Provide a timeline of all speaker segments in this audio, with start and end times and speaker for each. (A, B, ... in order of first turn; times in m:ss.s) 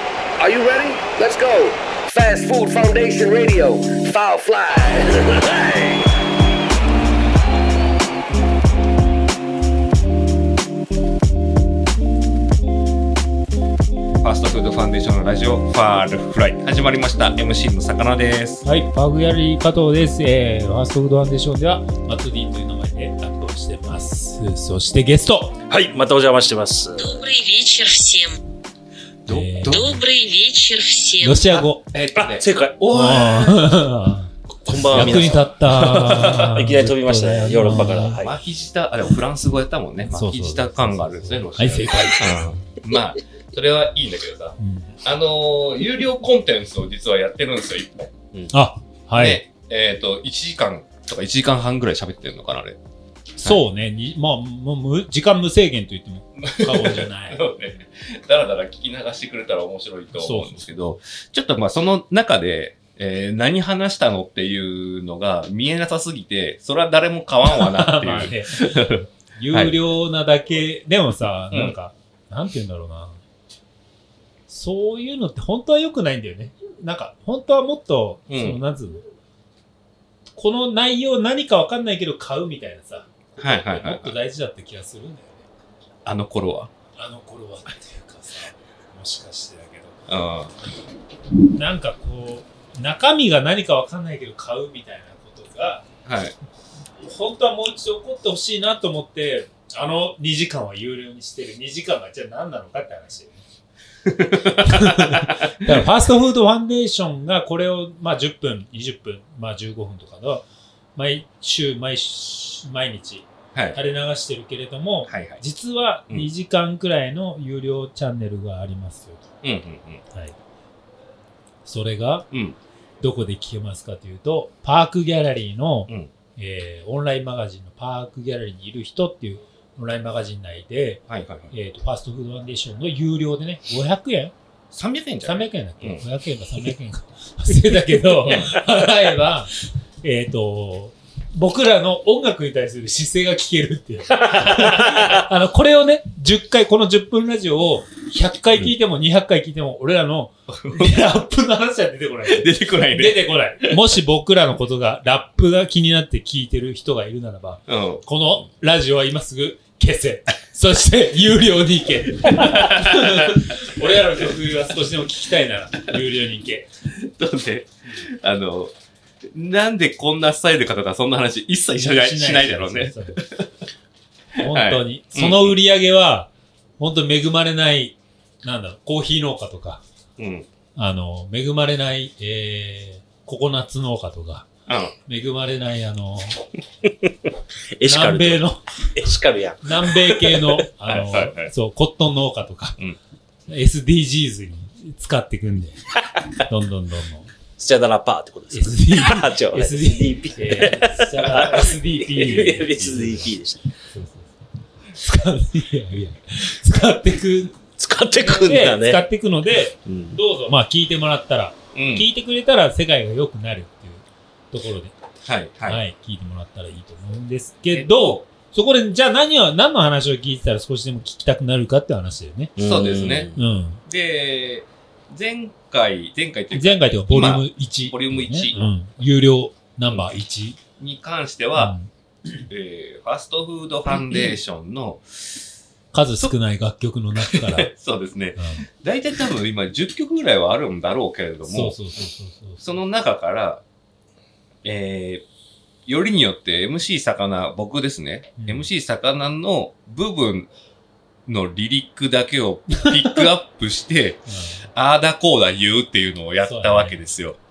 0:00.4-0:06.1 A
0:14.2-0:18.6 B
0:18.6-0:25.6 C
0:25.7-0:27.2 D
0:27.0-0:28.4 E
0:29.3-0:30.0 B
0:29.3-0:30.0 C
0:29.7-0:31.4 E
0:31.2-0:31.8 C
0:31.4-0:33.7 B
0:32.2-0:33.5 D
0:32.9-0:34.3 C
0:34.6-0:38.4 D
0:34.8-0:36.5 B
0:34.9-0:38.2 C
0:37.9-0:48.1 B
0:40.0-0:42.7 C
0:44.6-0:45.0 C
0:48.5-0:49.4 C
0:49.2-0:52.8 B
0:53.4-0:57.4 C
0:56.4-1:09.8 B
1:00.2-1:00.7 C
1:07.4-1:13.2 C
1:14.5-1:19.0 C
1:18.3-1:18.6 B
1:20.4-1:25.5 C
1:23.4-1:24.2 B
1:26.0-1:26.7 B
1:27.0-1:30.0 C
1:30.1-1:30.5 B
1:31.5-1:35.8 C
1:36.0-1:36.4 B
1:37.0-1:43.4 C
1:44.1-1:45.7 B
1:44.4-1:59.3 C
1:53.5-1:53.8 B
1:55.1-1:55.4 B
1:59.4-2:00.0 B
2:01.6-2:02.3 C
2:02.3-2:02.6 B
2:03.0-2:14.3 C
2:11.1-2:11.5 B
2:14.7-2:16.0 B
2:15.2-2:46.7 C
2:18.2-2:18.5 B
2:30.5-2:31.2 B
2:32.2-2:33.8 B
2:37.7-2:38.1 B
2:42.2-2:43.4 B
2:46.9-2:48.7 B
2:49.3-2:53.5 B
2:51.8-2:53.2 C
2:54.4-2:59.8 C
2:54.4-2:55.6 B
3:00.2-3:00.5 B
3:00.8-3:04.5 C
3:04.7-3:05.0 B
3:05.1-3:06.4 C
3:07.7-3:08.4 D
3:07.8-3:08.7 C
3:09.0-3:10.6 D
3:09.6-3:12.8 C
3:10.8-3:11.5 B
3:13.5-3:15.8 C
3:16.4-3:17.3 C
3:17.6-3:23.6 D
3:18.5-3:24.3 C
3:24.9-3:27.6 C
3:27.8-3:29.0 D
3:28.2-3:35.0 C
3:29.9-3:30.2 D
3:31.7-3:32.1 B
3:35.2-3:35.8 B
3:35.6-3:42.5 C
3:37.7-3:38.2 B
3:42.6-3:43.4 D
3:42.6-3:43.3 B
3:43.3-3:43.8 C
3:43.8-3:48.7 B
3:46.5-3:50.6 C
3:50.8-3:51.8 B
3:51.6-3:51.9 C
3:52.5-3:55.4 B
3:55.9-3:57.7 C
3:57.2-4:01.8 B
3:58.4-3:58.7 C
4:01.4-4:02.8 C
4:02.6-4:03.6 B
4:04.6-4:05.2 B
4:05.9-4:10.5 B
4:08.4-4:08.7 C
4:11.3-4:14.2 B
4:12.8-4:13.3 C
4:14.3-4:14.6 C
4:14.8-4:17.4 B
4:16.4-4:17.1 C